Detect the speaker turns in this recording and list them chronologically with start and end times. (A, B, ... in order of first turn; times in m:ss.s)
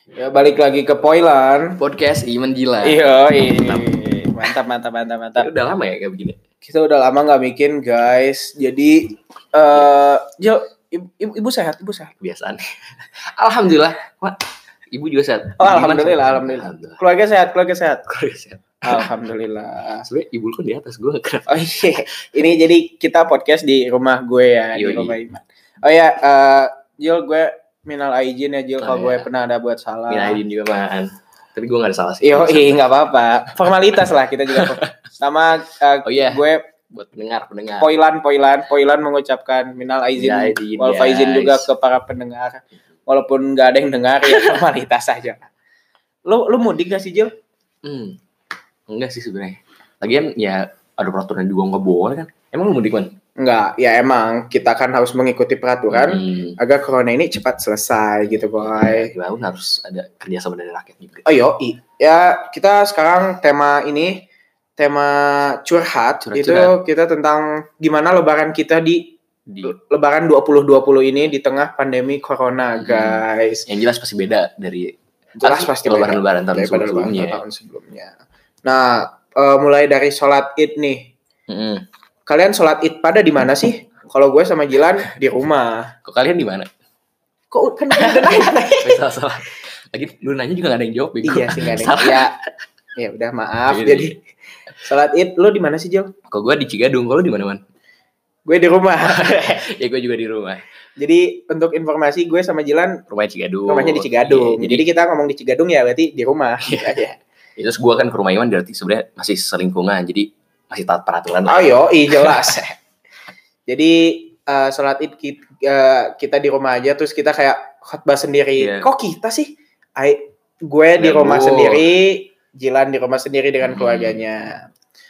0:00.2-0:01.8 A
0:01.8-0:04.0 B
0:02.8-0:05.5 A
0:05.4-0:06.4 B
0:06.6-0:12.1 A
0:12.2-0:14.4 B
0:14.9-0:17.0 B
0:15.6-0:18.0 A
0:18.1-0:19.1 B
0:18.8-0:20.0 A
0:20.0-0:22.0 B
0:21.5-0:30.4 A
0:24.7-0:25.2 B
0:28.8-0:29.3 B
0:30.1-0:32.8 B
0:32.2-0:36.6 A
0:34.5-0:34.9 B
0:36.0-0:37.9 B
0:37.8-0:45.5 A
0:40.2-0:41.7 B
0:44.3-0:44.5 B
0:46.2-0:47.3 A
0:47.8-0:48.2 B
0:48.9-0:53.2 B
0:53.4-0:59.1 A
0:55.9-0:56.5 B
0:58.3-1:01.2 B
1:01.2-1:04.2 A
1:04.8-1:09.0 A
1:06.3-1:06.8 B
1:09.5-1:09.7 B
1:09.6-1:13.6 A
1:12.8-1:17.4 B
1:15.4-1:21.1 A
1:21.5-1:21.8 B
1:22.2-1:25.9 A
1:26.0-1:26.7 B
1:27.5-1:29.0 A
1:27.9-1:32.3 B
1:31.2-1:32.3 A
1:33.0-1:34.2 A
1:33.7-1:34.1 B
1:34.8-1:36.1 A
1:36.3-1:37.6 B
1:38.5-1:39.6 A
1:39.1-1:40.6 B
1:41.0-1:43.0 A
1:43.1-1:44.8 B
1:43.7-1:47.2 A
1:46.6-1:47.0 B
1:47.6-1:52.6 B
1:51.4-1:52.8 A
1:53.7-2:04.7 A
1:58.6-1:58.8 B
2:01.0-2:01.9 B
2:03.6-2:04.2 B